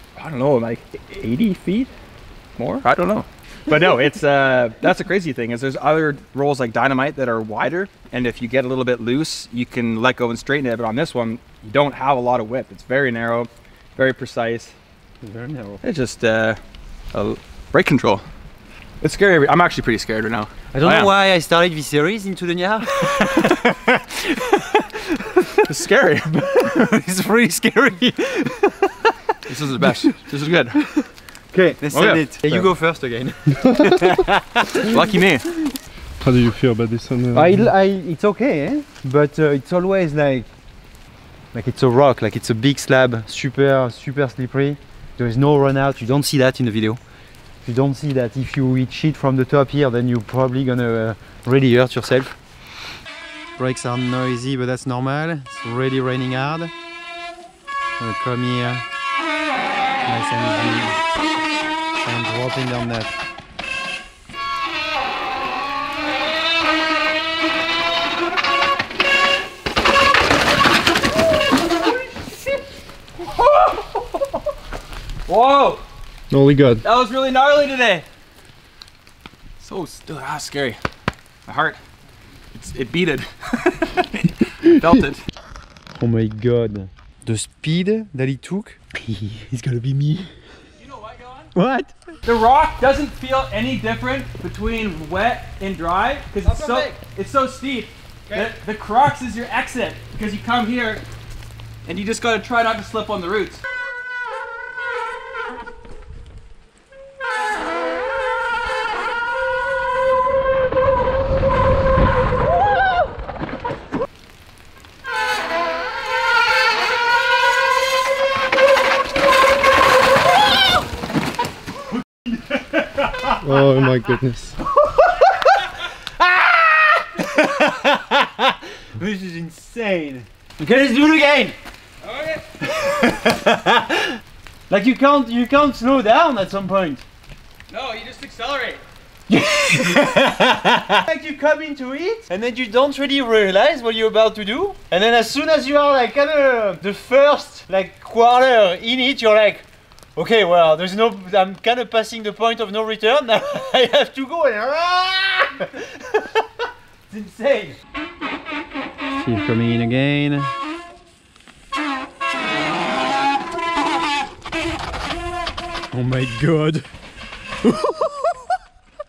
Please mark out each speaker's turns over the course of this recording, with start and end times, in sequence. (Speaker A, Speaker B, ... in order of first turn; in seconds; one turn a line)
Speaker A: 0.1-1.9
Speaker A: 2.6-14.7
Speaker B: 15.2-15.8
Speaker A: 15.8-16.6
Speaker A: 17.1-18.2
Speaker A: 19.0-21.1
Speaker B: 20.7-25.7
Speaker A: 25.6-26.8
Speaker B: 26.3-30.2
Speaker A: 29.4-30.9
Speaker B: 30.8-35.0
Speaker A: 31.9-32.7
Speaker C: 33.6-34.1
Speaker A: 34.7-35.5
Speaker C: 36.2-37.6
Speaker B: 37.3-40.5
Speaker B: 41.5-47.0
Speaker B: 47.6-52.4
Speaker B: 53.6-56.7
Speaker B: 58.0-58.9
Speaker B: 60.0-61.0
Speaker B: 62.0-63.2
Speaker A: 73.2-74.4
Speaker A: 75.3-75.8
Speaker C: 76.3-76.8
Speaker A: 76.8-78.0
Speaker A: 79.6-80.8
Speaker A: 81.5-81.8
Speaker A: 82.5-85.2
Speaker B: 86.0-90.3
Speaker A: 90.8-91.5
Speaker B: 91.5-92.0
Speaker A: 92.2-101.0
Speaker B: 96.4-97.0
Speaker B: 98.3-98.5
Speaker A: 101.8-103.6
Speaker B: 121.9-124.1
Speaker C: 123.4-124.6
Speaker B: 124.6-131.6
Speaker A: 132.0-132.4
Speaker B: 132.6-137.0
Speaker A: 137.7-138.8
Speaker B: 139.3-157.8
Speaker B: 159.2-160.5
Speaker B: 165.9-166.9
Speaker B: 167.6-168.5